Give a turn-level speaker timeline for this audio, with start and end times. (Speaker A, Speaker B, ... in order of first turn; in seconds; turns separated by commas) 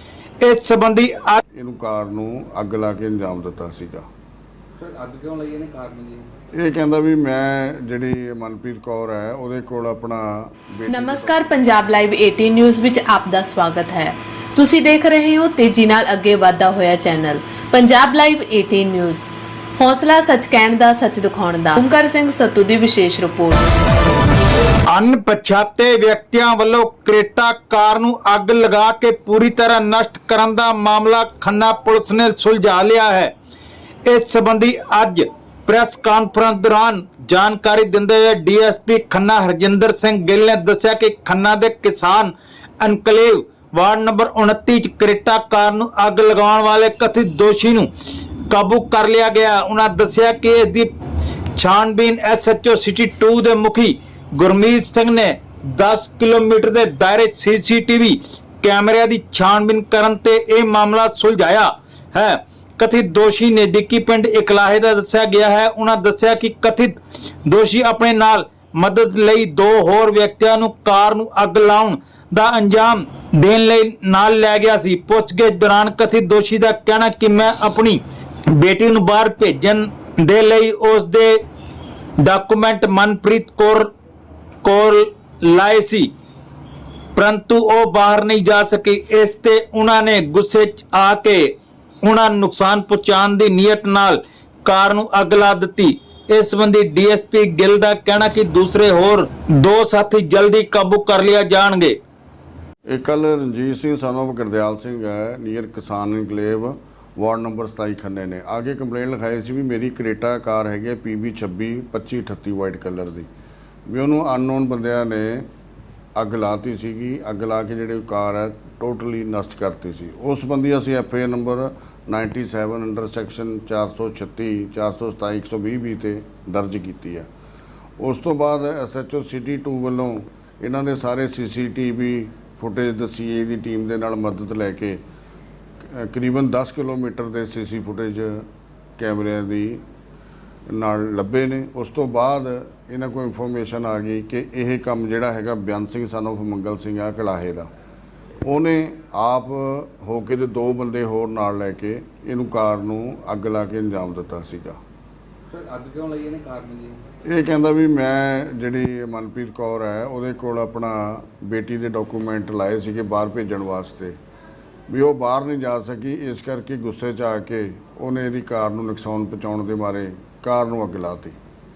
Speaker A: 0.4-1.4, Speaker B: 1.5-4.1, Speaker C: 4.8-6.3, Speaker B: 6.5-11.6, Speaker D: 10.9-23.6, Speaker A: 24.9-33.3, Speaker A: 34.1-47.9, Speaker A: 48.5-50.9, Speaker A: 51.5-81.4, Speaker A: 82.2-83.9, Speaker A: 84.6-86.1, Speaker A: 87.2-102.0, Speaker B: 102.9-113.3, Speaker B: 113.9-115.5, Speaker B: 116.2-127.3, Speaker B: 128.0-135.0, Speaker B: 135.8-138.5, Speaker B: 139.0-139.8, Speaker B: 140.7-147.7, Speaker B: 148.4-154.8, Speaker C: 155.5-157.0, Speaker B: 157.2-164.2, Speaker B: 164.9-171.4